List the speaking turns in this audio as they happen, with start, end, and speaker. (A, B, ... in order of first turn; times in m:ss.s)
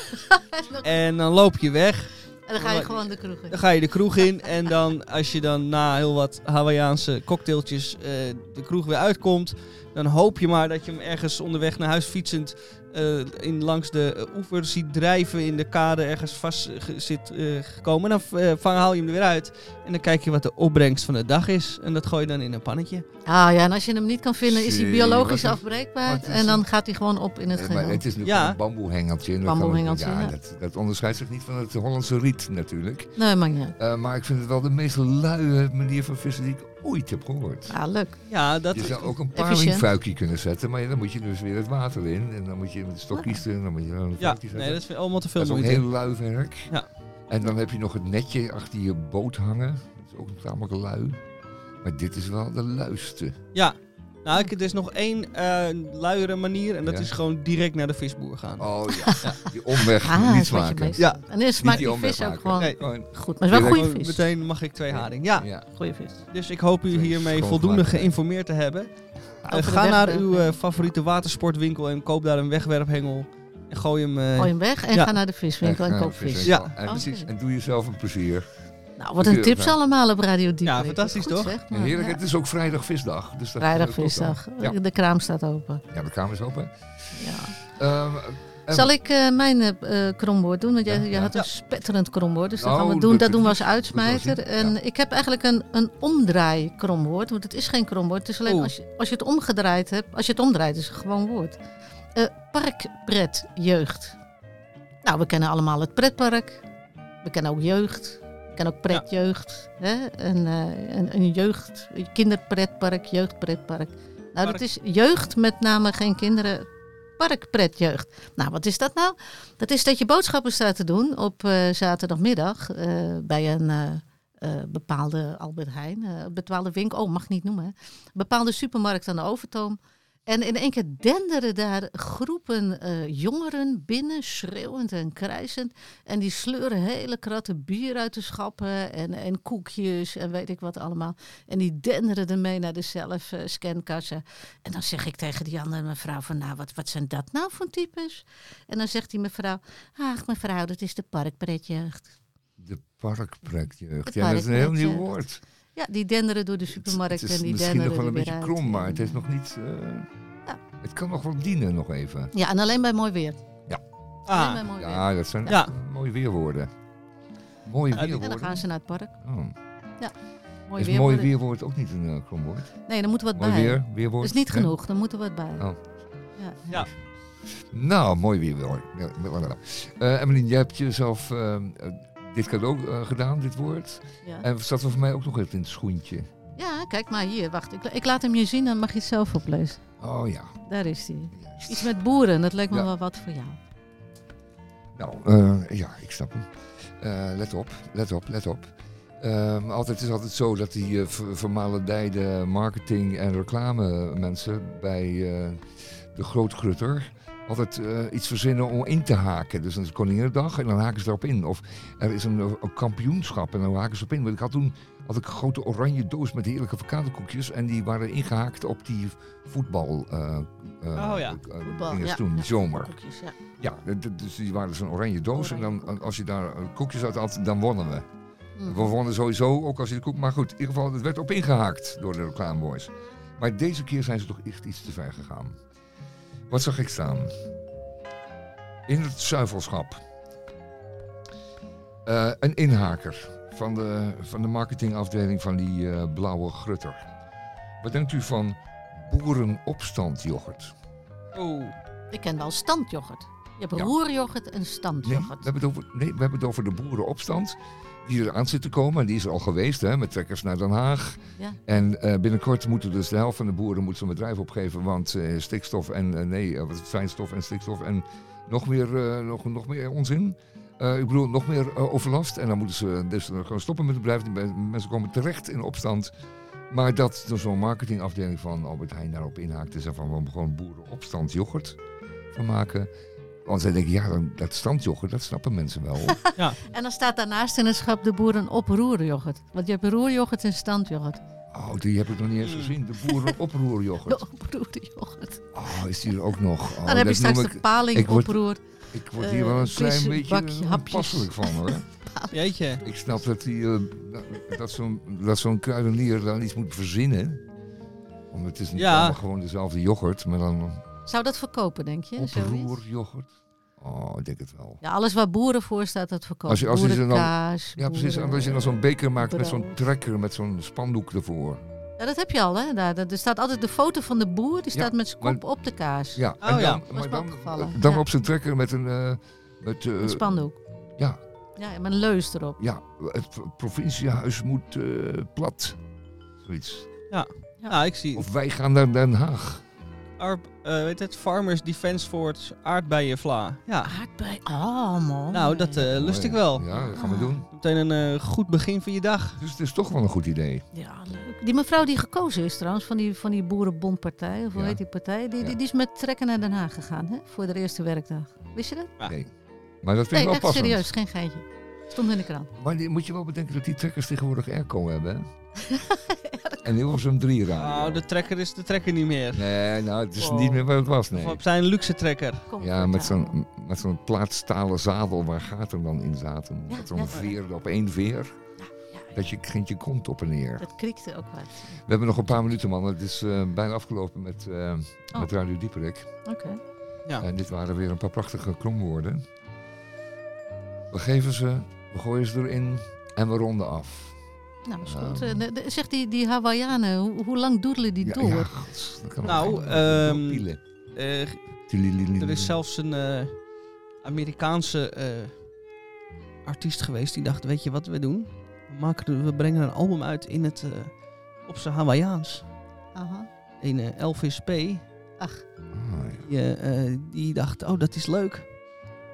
0:00.3-0:00.9 A
0:00.8-0:23.0 B
0:02.5-0:03.6 A
0:04.2-0:04.5 A
0:23.2-0:28.0 A
0:24.4-0:26.6 C
0:27.5-0:33.2 C
0:28.2-0:28.6 B
0:29.4-0:30.3 A
0:33.2-0:33.8 A
0:33.8-0:37.8 C
0:37.7-0:38.2 A
0:38.3-0:39.1 B
0:38.7-0:44.8 C
0:39.3-0:39.8 A
0:43.1-0:43.4 A
0:44.2-0:45.8 B
0:45.3-0:46.7 C
0:47.3-0:51.2 C
0:51.8-0:53.4 C
0:53.5-0:58.7 B
0:56.8-0:57.1 C
0:58.6-1:01.0 C
1:00.0-1:04.2 A
1:01.5-1:03.8 C
1:03.5-1:05.5 B
1:04.9-1:05.7 C
1:05.7-1:06.2 A
1:06.3-1:08.9 B
1:06.9-1:08.1 C
1:09.4-1:10.6 A
1:09.5-1:15.1 B
1:14.4-1:17.3 A
1:15.6-1:18.5 C
1:16.4-1:16.8 B
1:19.0-1:22.2 A
1:19.2-1:19.8 C
1:20.6-1:21.5 B
1:21.7-1:24.8 C
1:23.6-1:25.8 A
1:25.9-1:28.9 C
1:27.2-1:27.6 A
1:28.7-1:41.6 A
1:30.8-1:31.3 C
1:32.6-1:34.8 C
1:38.4-1:38.7 B
1:42.1-1:44.2 A
1:45.0-1:46.6 A
1:47.2-1:56.6 A
1:57.2-2:32.1 A
2:32.6-2:35.4 C
2:34.0-2:35.2 A
2:35.8-2:39.2 A
2:36.7-2:40.1 C
2:40.8-2:42.3 C
2:42.3-2:43.4 A
2:44.3-2:44.6 B
2:44.3-2:45.6 A
2:44.7-2:46.7 C
2:47.6-2:48.6 C
2:47.9-2:49.1 A
2:49.2-2:49.5 C
2:50.7-2:51.3 A
2:50.8-2:52.8 C
2:52.9-2:55.6 A
2:53.3-2:54.7 C
2:56.4-2:56.9 A
2:57.6-3:06.3 C
3:06.6-3:09.8 A
3:10.0-3:10.6 C
3:10.7-3:13.6 A
3:11.3-3:11.9 C
3:14.9-3:42.9 C
3:41.0-3:41.4 B
3:41.6-3:43.4 A
3:43.6-3:48.1 C
3:45.3-3:46.0 A
3:48.6-3:49.0 A
3:48.7-3:55.6 C
3:56.5-3:57.4 C
3:58.9-4:00.0 C
4:02.0-4:07.0 C
4:07.8-4:10.7 C
4:11.3-4:11.7 B
4:12.1-4:15.5 A
4:15.0-4:36.1 C
4:36.7-4:41.8 C
4:42.3-4:42.9 C
4:43.4-4:46.2 C
4:46.1-4:51.2 A
4:51.5-4:54.2 C
4:52.4-4:52.7 B
4:53.1-4:53.3 A
4:54.0-4:55.4 A
4:55.5-5:01.9 C
4:56.8-4:58.6 A
4:59.2-5:03.1 A
5:02.3-5:02.8 B
5:02.8-5:07.4 C
5:08.3-5:10.8 C
5:08.8-5:09.2 B
5:11.1-5:12.8 A
5:12.2-5:14.8 C
5:14.8-5:19.8 A
5:16.5-5:21.6 C
5:22.0-5:28.0 A
5:24.7-5:25.4 C
5:26.1-5:30.4 C
5:26.4-5:26.8 B
5:30.0-5:30.6 A
5:31.6-5:32.6 A
5:32.6-5:35.8 C
5:36.4-5:36.9 C
5:37.1-5:38.2 B
5:38.1-5:39.6 C
5:40.2-5:43.9 B
5:43.8-5:45.8 A
5:45.3-5:46.7 B
5:45.8-5:47.5 C
5:46.9-5:47.4 A
5:47.5-5:49.4 B
5:49.4-5:50.6 C
5:50.7-5:58.9 A
5:54.5-5:54.8 C
5:59.0-5:59.3 C
5:59.8-6:00.9 C
6:00.1-6:02.5 A
6:02.6-6:05.3 C
6:05.6-6:06.6 A
6:06.6-6:08.0 C
6:07.6-6:09.5 B
6:09.3-6:11.4 C
6:10.2-6:10.6 A
6:11.1-6:12.4 B
6:12.5-6:13.4 A
6:12.6-6:18.4 C
6:16.7-6:17.3 A
6:18.6-6:19.1 A
6:19.1-6:20.7 C
6:20.6-6:21.8 A
6:21.8-6:26.1 C
6:26.2-6:26.6 A
6:27.2-6:29.2 C
6:30.9-6:34.2 C
6:34.6-6:38.5 A
6:34.8-6:35.4 C
6:38.0-6:40.6 C
6:39.2-6:43.5 B
6:41.7-6:42.6 C
6:44.0-6:45.5 B
6:46.4-6:52.4 B
6:52.9-6:53.3 A
6:53.6-6:54.8 B
6:55.7-6:56.2 C
6:56.2-6:58.6 B